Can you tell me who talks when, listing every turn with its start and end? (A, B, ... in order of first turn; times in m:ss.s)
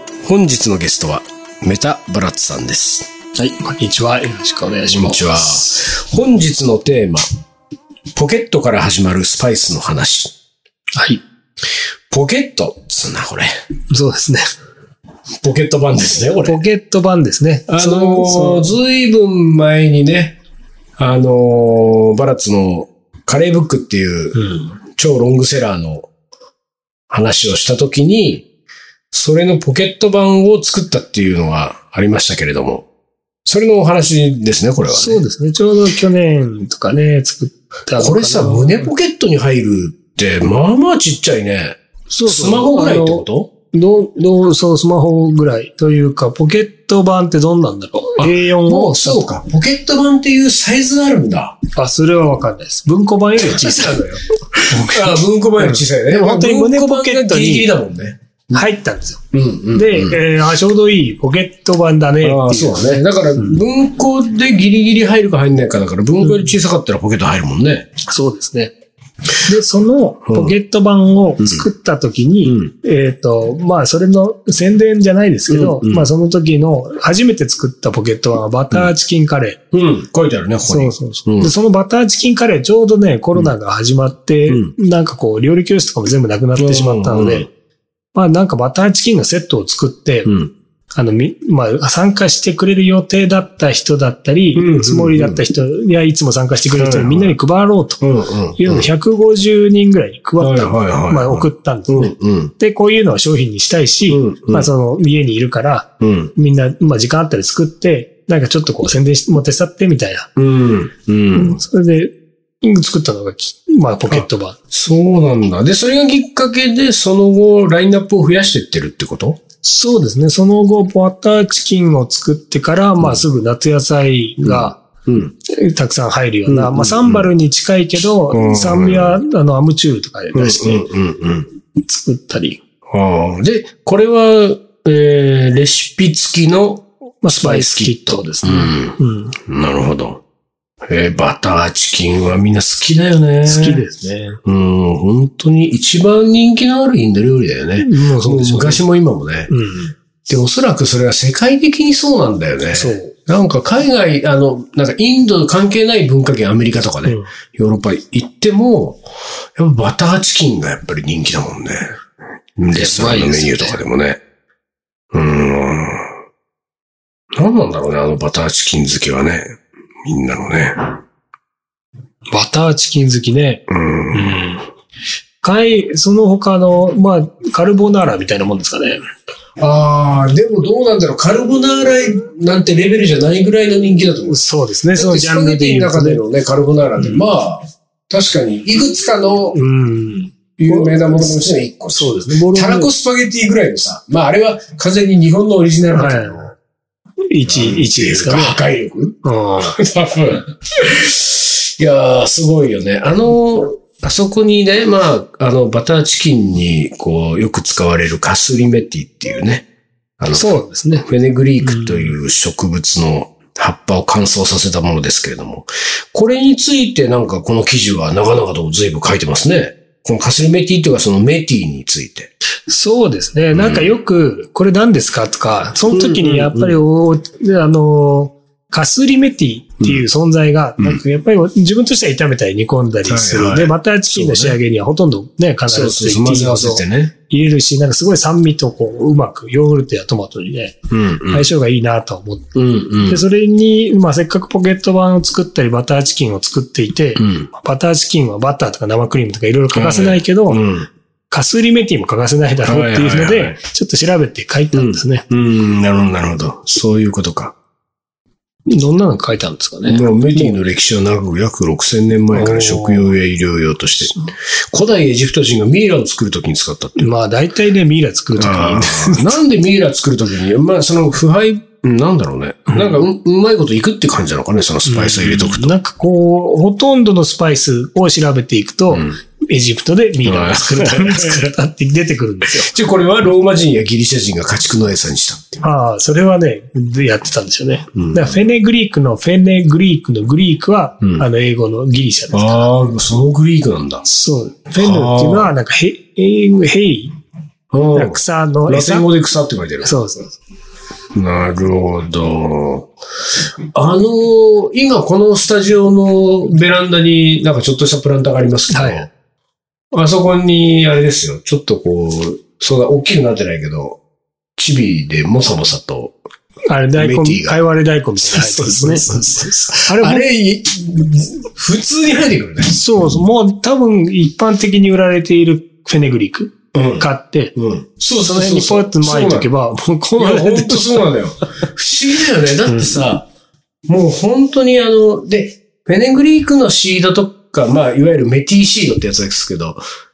0:00.2-0:03.1 A
0:03.3-0:05.8 B
0:04.9-0:07.2 A
0:08.1-0:10.3 A
0:11.0-0:11.2 B
0:12.1-0:13.5 A
0:13.9-0:14.4 B
0:15.4-0:16.6 A
0:16.4-0:18.7 B
0:17.7-0:20.4 A
0:21.0-0:24.4 A
0:24.3-0:24.7 B
0:24.9-0:26.1 A
0:27.1-0:28.5 A
0:29.1-0:32.9 A
0:33.4-0:35.2 A
0:34.9-0:38.9 B
0:38.0-0:43.5 A
0:42.1-0:49.2 B
0:48.2-0:51.6 A
0:51.7-0:54.0 B
0:53.4-0:58.6 A
0:54.7-0:57.7 B
0:58.5-0:59.2 B
0:59.3-1:00.2 A
0:59.7-1:03.6 B
1:02.2-1:07.9 A
1:06.2-1:06.5 B
1:08.1-1:08.7 B
1:09.5-1:19.6 B
1:10.3-1:10.5 A
1:11.4-1:11.7 A
1:12.4-1:12.7 A
1:15.5-1:16.1 A
1:19.7-1:21.5 A
1:20.7-1:27.5 B
1:24.5-1:24.7 A
1:26.6-1:27.5 A
1:28.1-1:30.3 B
1:30.2-1:30.5 A
1:30.9-1:38.0 B
1:34.5-1:35.4 A
1:36.7-1:37.4 A
1:38.0-1:38.9 A
1:38.6-1:50.3 B
1:40.4-1:42.5 A
1:44.1-1:44.7 A
1:46.0-1:46.3 A
1:50.4-1:51.6 A
1:51.3-1:54.6 B
1:54.1-1:59.4 A
1:59.6-2:04.8 B
2:04.4-2:05.3 A
2:05.6-2:10.8 B
2:06.5-2:07.3 A
2:08.3-2:09.2 A
2:10.3-2:11.5 A
2:11.8-2:12.6 B
2:12.9-2:20.2 A
2:17.2-2:19.3 B
2:20.9-2:23.8 A
2:23.4-2:24.4 B
2:24.4-2:29.5 A
2:27.8-2:28.8 B
2:29.5-2:30.0 B
2:30.2-2:39.0 A
2:32.7-2:33.1 B
2:37.0-2:37.3 B
2:39.6-2:42.0 A
2:42.6-2:44.2 A
2:42.7-2:43.8 B
2:45.1-2:46.1 A
2:47.3-2:51.0 A
2:52.3-2:54.6 B
2:53.7-2:54.6 A
2:55.4-2:59.0 B
2:59.6-3:04.4 A
3:04.2-3:06.2 B
3:04.9-3:09.6 A
3:07.0-3:07.2 B
3:09.5-3:12.9 B
3:10.6-3:16.5 A
3:15.9-3:16.5 B
3:17.3-3:18.6 B
3:17.4-3:29.7 A
3:19.2-3:19.8 B
3:30.2-3:42.3 A
3:30.3-3:31.1 B
3:31.6-3:32.1 B
3:42.7-4:00.8 B
3:43.5-3:44.0 A
3:45.9-3:46.8 A
3:53.0-3:54.6 A
3:55.7-3:57.1 A
4:00.9-4:01.5 A
4:01.3-4:02.5 B
4:02.5-4:03.3 A
4:03.0-4:10.6 B
4:07.2-4:07.5 A
4:09.7-4:10.9 A
4:11.3-4:15.2 B
4:12.6-4:13.6 A
4:14.7-4:17.6 A
4:18.7-4:20.6 B
4:19.8-4:27.1 A
4:22.3-4:23.1 B
4:27.0-4:29.4 B
4:28.4-4:35.7 A
4:32.7-4:33.0 B
4:34.8-4:42.7 B
4:38.9-4:39.2 A
4:40.2-4:41.5 A
4:42.5-4:45.7 A
4:45.6-4:52.7 B
4:47.9-4:48.4 A
4:51.0-4:51.2 A
4:52.3-4:54.0 A
4:54.0-4:57.1 B
4:54.7-4:55.5 A
4:57.7-4:59.9 A
4:57.9-4:59.1 B
4:59.8-5:00.4 B
5:01.1-5:02.9 A
5:03.7-5:09.1 A
5:08.7-5:09.0 B
5:09.9-5:14.0 A
5:14.6-5:16.2 A
5:16.7-5:20.2 B
5:17.0-5:17.6 A
5:18.2-5:22.8 A
5:22.7-5:27.5 B
5:26.7-5:29.5 A
5:28.2-5:31.1 B
5:30.2-5:33.3 A
5:32.7-5:33.0 B
5:33.9-5:39.8 A